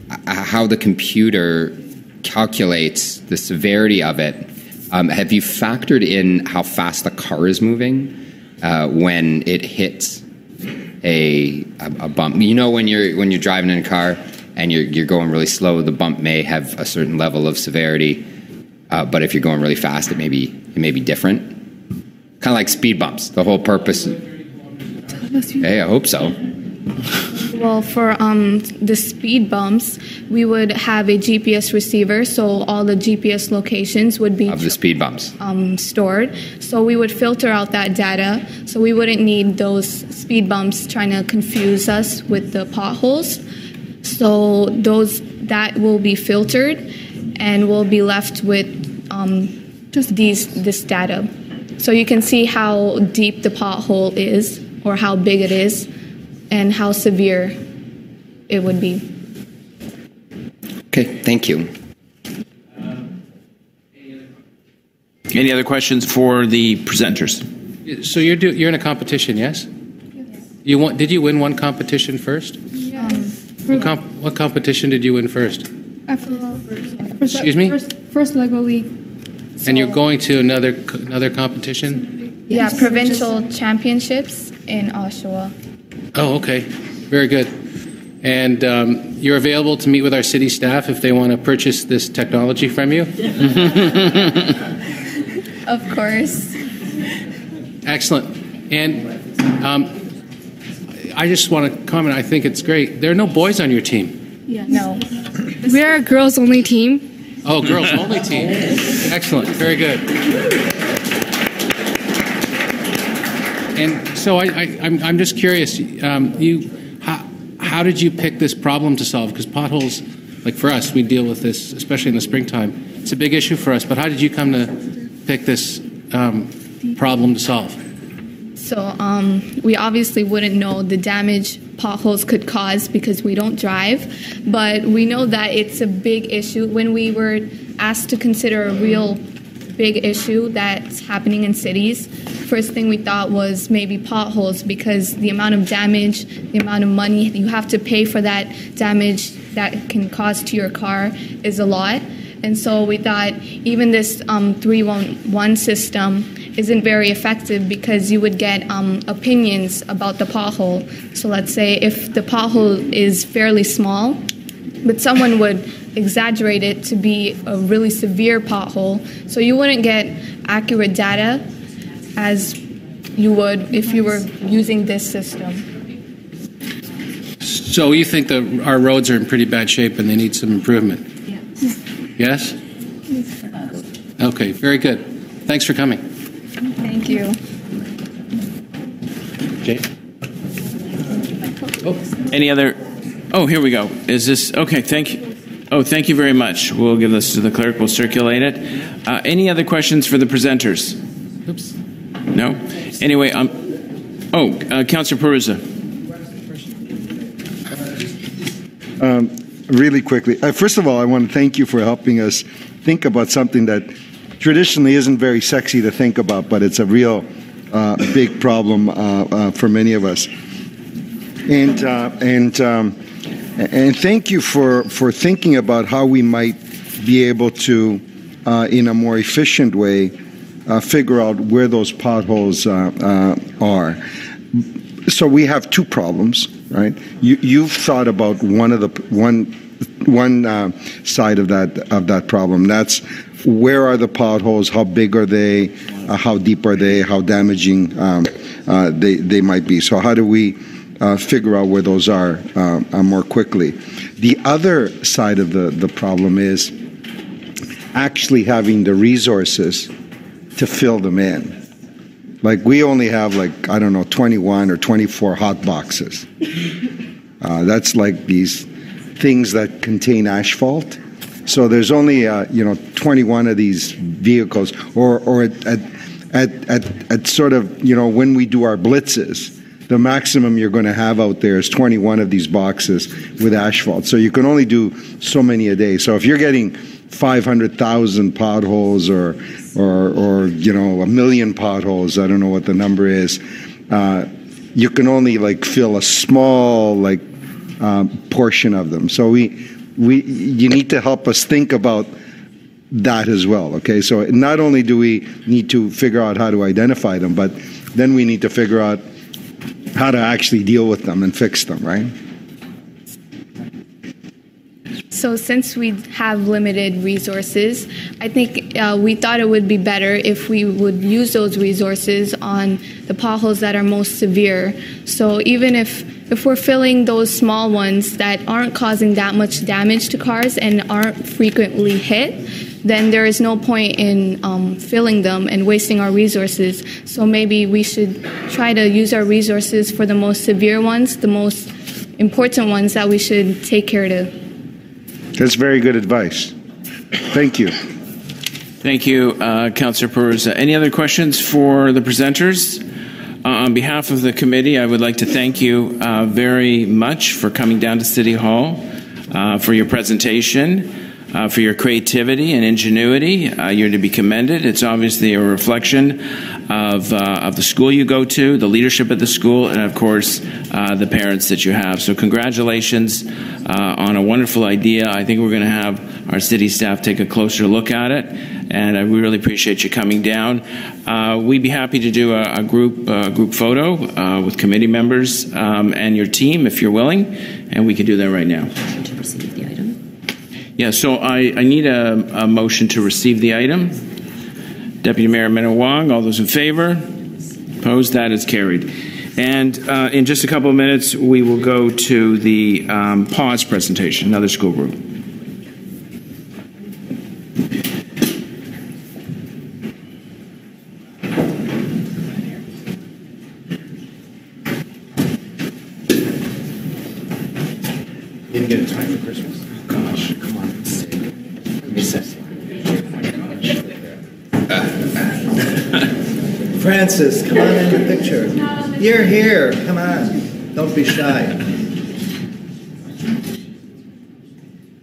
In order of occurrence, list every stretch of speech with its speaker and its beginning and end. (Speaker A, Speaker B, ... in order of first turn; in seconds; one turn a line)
Speaker A: 0.3-10.2
Speaker A: 11.0-18.3
Speaker A: 18.9-21.5
Speaker A: 22.4-24.2
Speaker A: 25.6-26.4
Speaker B: 27.5-34.8
Speaker A: 34.5-35.3
Speaker B: 35.4-43.4
Speaker B: 44.0-51.3
Speaker B: 51.8-55.9
Speaker B: 56.5-57.6
Speaker B: 58.5-59.1
Speaker A: 60.9-61.7
Speaker C: 65.3-67.4
Speaker D: 67.9-69.7
Speaker D: 70.6-72.6
Speaker B: 73.0-73.3
Speaker D: 73.7-75.7
Speaker E: 76.1-78.9
Speaker D: 77.4-77.8
Speaker D: 79.6-82.1
Speaker B: 82.5-85.5
Speaker D: 86.2-87.5
Speaker D: 88.2-93.2
Speaker B: 95.7-96.6
Speaker D: 97.8-99.1
Speaker D: 99.6-99.9
Speaker D: 101.0-104.2
Speaker E: 104.5-104.8
Speaker B: 104.7-105.0
Speaker E: 105.7-107.1
Speaker D: 107.5-110.1
Speaker D: 113.8-127.8
Speaker B: 128.6-139.2
Speaker B: 139.8-164.2
Speaker B: 164.8-171.4
Speaker B: 172.2-172.6
Speaker B: 173.2-175.6
Speaker D: 177.4-181.1
Speaker D: 182.2-182.6
Speaker D: 184.2-186.0
Speaker B: 186.7-187.4
Speaker C: 192.3-192.8
Speaker C: 193.3-201.0
Speaker C: 202.3-203.5
Speaker C: 204.3-205.6
Speaker F: 209.0-220.3
Speaker F: 221.5-222.9
Speaker F: 223.6-230.1
Speaker F: 230.7-234.0
Speaker F: 235.1-256.7
Speaker F: 257.9-259.9
Speaker F: 260.6-261.5
Speaker F: 262.4-266.2
Speaker F: 267.4-268.6
Speaker F: 269.2-297.2
Speaker F: 297.8-302.1
Speaker F: 302.9-309.0
Speaker F: 309.9-312.1
Speaker B: 315.1-344.3
Speaker F: 345.4-346.5
Speaker F: 347.3-347.7
Speaker C: 348.8-352.8
Speaker C: 353.4-388.7
Speaker C: 390.8-394.0
Speaker C: 395.0-397.0
Speaker C: 397.8-405.0
Speaker G: 418.6-419.4
Speaker G: 426.8-428.3
Speaker G: 428.9-431.6